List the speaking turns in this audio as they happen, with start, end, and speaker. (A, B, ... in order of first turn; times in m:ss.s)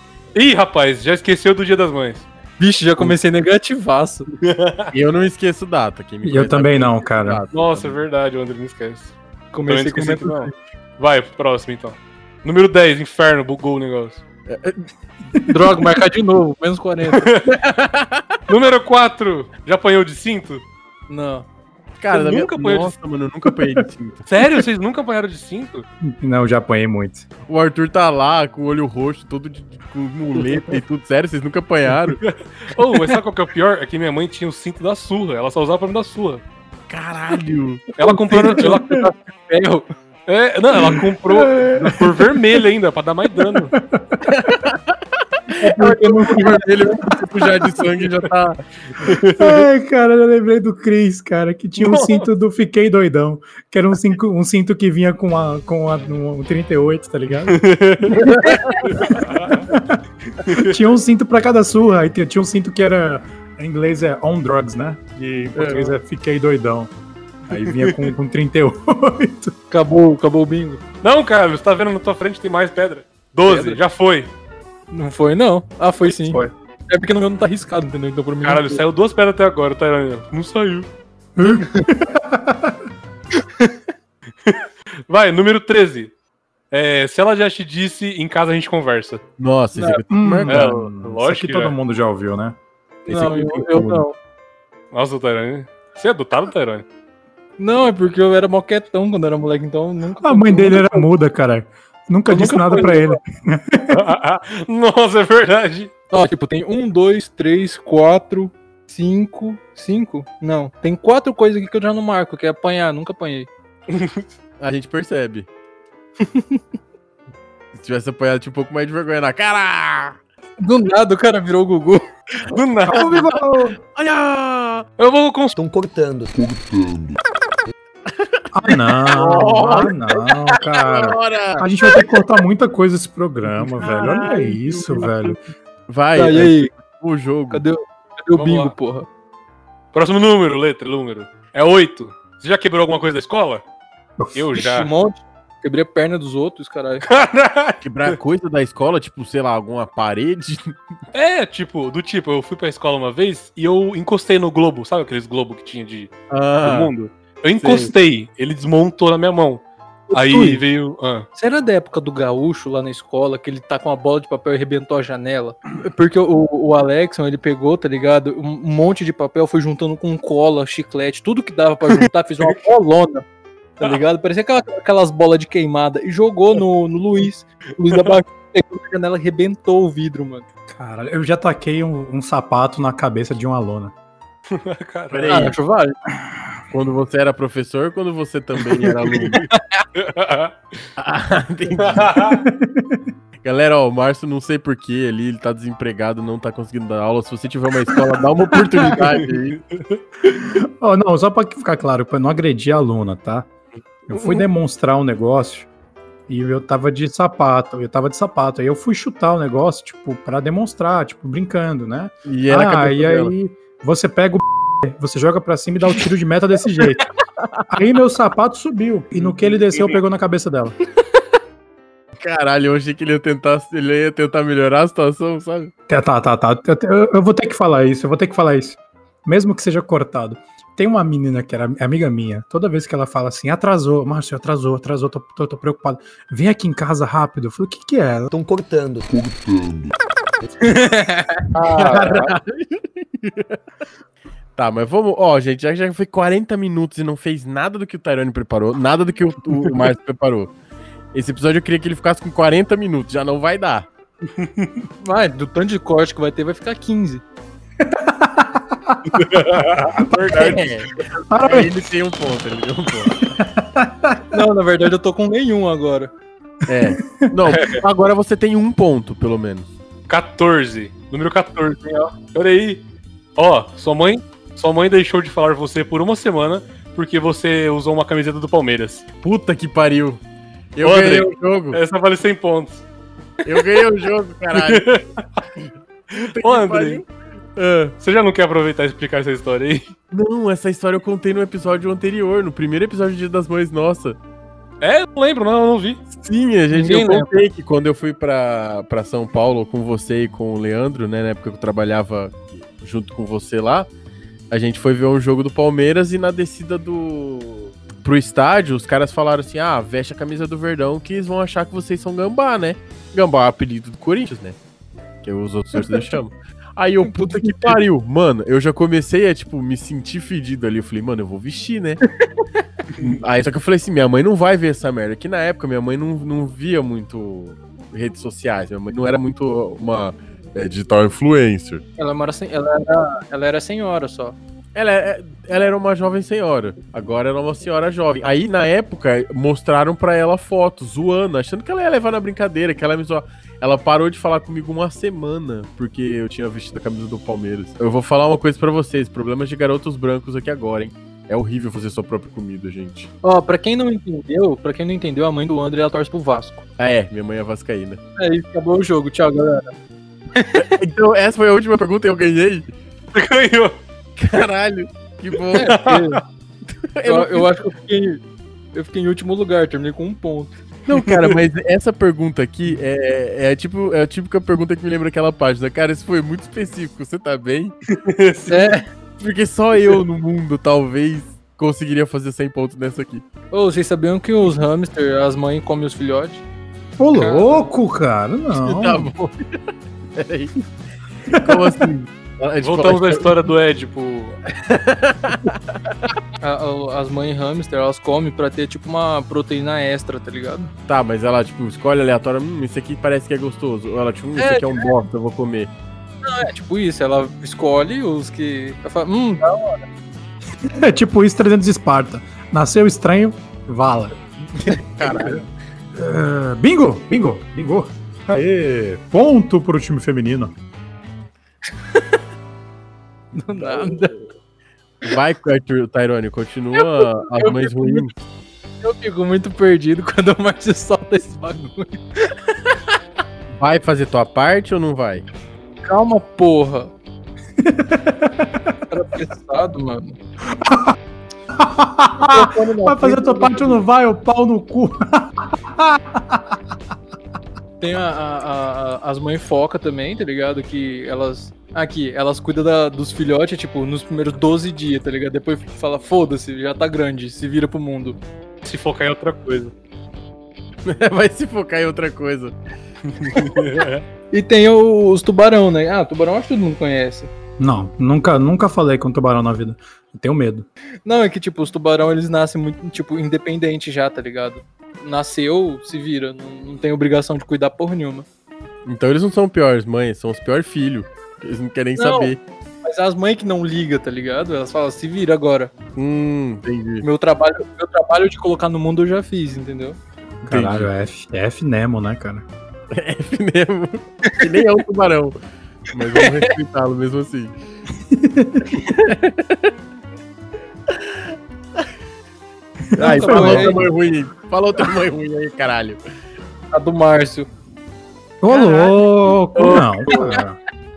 0:00.4-0:02.3 A
0:02.6-0:04.3 B
0:04.4-0:04.9 A
0:04.9-0:08.0 C
0:06.2-0:07.4 D
0:07.5-0:09.2 A
0:09.5-0:10.5 B
0:09.7-0:14.2 A
0:14.5-0:14.9 C
0:15.5-0:17.3 B
0:17.2-0:17.5 A
0:17.5-0:18.4 C
0:18.5-0:20.6 A
0:21.1-0:21.5 B
0:22.0-0:24.3 C
0:22.1-0:22.9 A
0:24.3-0:25.9 A
0:26.0-0:27.3 D
0:27.5-0:32.2 C
0:32.2-0:36.4 A
0:36.9-0:37.9 C
0:38.0-0:39.1 A
0:38.3-0:38.9 B
0:39.5-0:39.9 B
0:40.3-0:43.7 A
0:41.3-0:42.2 D
0:43.7-0:44.2 D
0:44.3-0:45.0 C
0:45.5-0:49.1 C
0:45.6-0:46.7 B
0:49.0-0:49.6 A
0:49.4-0:57.7 D
0:51.8-0:52.2 A
0:57.5-0:59.7 A
0:58.2-0:58.9 C
0:59.1-1:06.9 D
1:00.5-1:00.8 A
1:05.6-1:05.9 C
1:07.5-1:09.5 D
1:09.7-1:10.8 B
1:11.0-1:14.3 A
1:13.4-1:13.8 B
1:14.9-1:18.8 B
1:18.4-1:20.9 A
1:21.4-1:22.8 D
1:24.4-1:26.1 A
1:26.7-1:29.2 A
1:29.4-1:30.9 C
1:29.8-1:30.0 B
1:30.1-1:32.6 D
1:30.5-1:31.8 A
1:33.1-1:34.2 B
1:33.1-1:34.0 C
1:34.9-1:36.8 A
1:37.6-1:41.1 B
1:40.2-1:44.1 D
1:42.3-1:43.2 B
1:43.9-1:45.9 A
1:46.1-1:53.5 B
1:53.9-1:54.2 A
1:54.6-1:55.5 C
1:56.2-1:56.6 B
1:57.8-2:00.2 C
2:00.6-2:02.1 B
2:02.4-2:03.2 A
2:02.5-2:04.9 C
2:02.9-2:03.8 D
2:05.0-2:05.6 A
2:05.6-2:07.2 E
2:08.1-2:08.4 C
2:08.5-2:15.4 D
2:09.0-2:12.2 C
2:13.6-2:15.4 C
2:15.9-2:17.6 C
2:16.2-2:16.7 B
2:17.5-2:19.1 B
2:18.4-2:18.7 A
2:19.9-2:23.6 A
2:24.2-2:24.5 D
2:24.4-2:24.9 A
2:24.5-2:27.0 B
2:27.0-2:28.2 A
2:27.8-2:30.8 C
2:31.1-2:41.3 A
2:36.3-2:36.9 C
2:37.6-2:37.9 C
2:40.1-2:40.6 B
2:41.4-2:53.2 B
2:53.8-3:00.4 B
3:00.7-3:03.9 D
3:04.5-3:05.5 A
3:05.1-3:05.6 C
3:05.3-3:06.0 B
3:06.7-3:09.4 C
3:09.5-3:09.8 B
3:10.0-3:10.6 A
3:11.0-3:12.1 C
3:11.8-3:12.4 A
3:12.3-3:13.1 D
3:13.4-3:19.6 C
3:19.7-3:20.3 A
3:20.3-3:23.5 D
3:24.1-3:25.7 D
3:26.3-3:37.1 D
3:32.3-3:33.3 C
3:37.7-3:40.8 D
3:39.2-3:39.9 C
3:42.2-3:45.7 C
3:45.9-3:58.3 D
3:58.3-4:00.0 E
4:00.6-4:01.5 B
4:01.5-4:03.6 C
4:04.6-4:10.5 C
4:11.1-4:13.9 C
4:14.4-4:14.8 A
4:15.0-4:17.2 B
4:17.8-4:20.6 D
4:19.2-4:20.6 A
4:20.2-4:23.3 C
4:21.3-4:21.8 D
4:23.3-4:24.4 D
4:24.3-4:26.1 B
4:26.7-4:29.7 C
4:30.1-4:32.8 A
4:33.4-4:39.0 A
4:39.2-4:40.2 C
4:40.8-4:41.8 C
4:40.8-4:42.8 A
4:43.4-4:44.9 C
4:44.5-4:45.2 A
4:46.1-4:48.0 C
4:46.2-4:47.0 A
4:48.0-4:49.9 A
4:50.1-4:54.2 C
4:54.8-4:56.0 A
4:56.1-5:03.9 C
4:56.7-4:57.3 B
5:04.5-5:14.6 C
5:15.2-5:22.0 C
5:17.0-5:17.8 B
5:23.0-5:31.8 C
5:32.0-5:34.4 B
5:34.8-5:53.1 C
5:53.2-5:56.6 B
5:56.8-5:58.0 C
5:58.2-5:59.7 B
6:00.4-6:00.7 B
6:00.6-6:02.7 C
6:03.1-6:03.8 A
6:04.2-6:05.8 C
6:05.5-6:06.2 A
6:05.6-6:06.2 B
6:06.8-6:07.5 C
6:07.0-6:08.2 B
6:08.7-6:10.6 B
6:10.9-6:17.8 C
6:11.1-6:11.4 A
6:17.9-6:18.7 A
6:18.5-6:18.9 B
6:19.2-6:23.2 C
6:23.5-6:26.4 B
6:27.0-6:29.1 D
6:27.1-6:27.7 B
6:28.5-6:29.6 C
6:30.2-6:30.6 C
6:31.3-6:33.5 C
6:31.3-6:31.7 D
6:32.6-6:34.4 A
6:34.6-6:35.9 C
6:36.4-6:40.7 B
6:40.9-6:45.7 C
6:44.4-6:44.9 B
6:46.2-6:49.8 B
6:50.6-6:55.4 D
6:54.7-6:55.5 C
6:56.0-7:00.5 D
7:03.4-7:04.2 B
7:03.6-7:04.0 C
7:05.0-7:08.1 C
7:06.8-7:08.1 B
7:08.8-7:12.4 B
7:13.6-7:15.3 C
7:15.8-7:16.9 B
7:17.6-7:18.8 D
7:18.9-7:20.2 B
7:20.5-7:21.0 D
7:21.5-7:26.6 D
7:22.3-7:23.7 B
7:27.8-7:38.2 B
7:38.6-7:39.7 A
7:40.9-7:42.6 C
7:43.1-7:44.0 A
7:44.3-7:47.3 B
7:47.6-7:50.7 D
7:51.0-7:58.3 B
7:58.8-8:02.4 C
8:02.0-8:02.3 B
8:02.8-8:05.7 B
8:06.0-8:07.0 C
8:07.0-8:10.0 B
8:10.4-8:12.4 D
8:10.5-8:10.9 C
8:12.9-8:15.4 C
8:15.9-8:17.5 C
8:16.1-8:16.5 B
8:18.1-8:18.7 D
8:19.0-8:19.7 C
8:20.9-8:21.2 C
8:23.0-8:23.8 D
8:23.0-8:23.8 B
8:23.0-8:26.0 C
8:26.7-8:27.5 B
8:28.4-8:30.6 D
8:28.5-8:29.0 B
8:29.6-8:30.3 C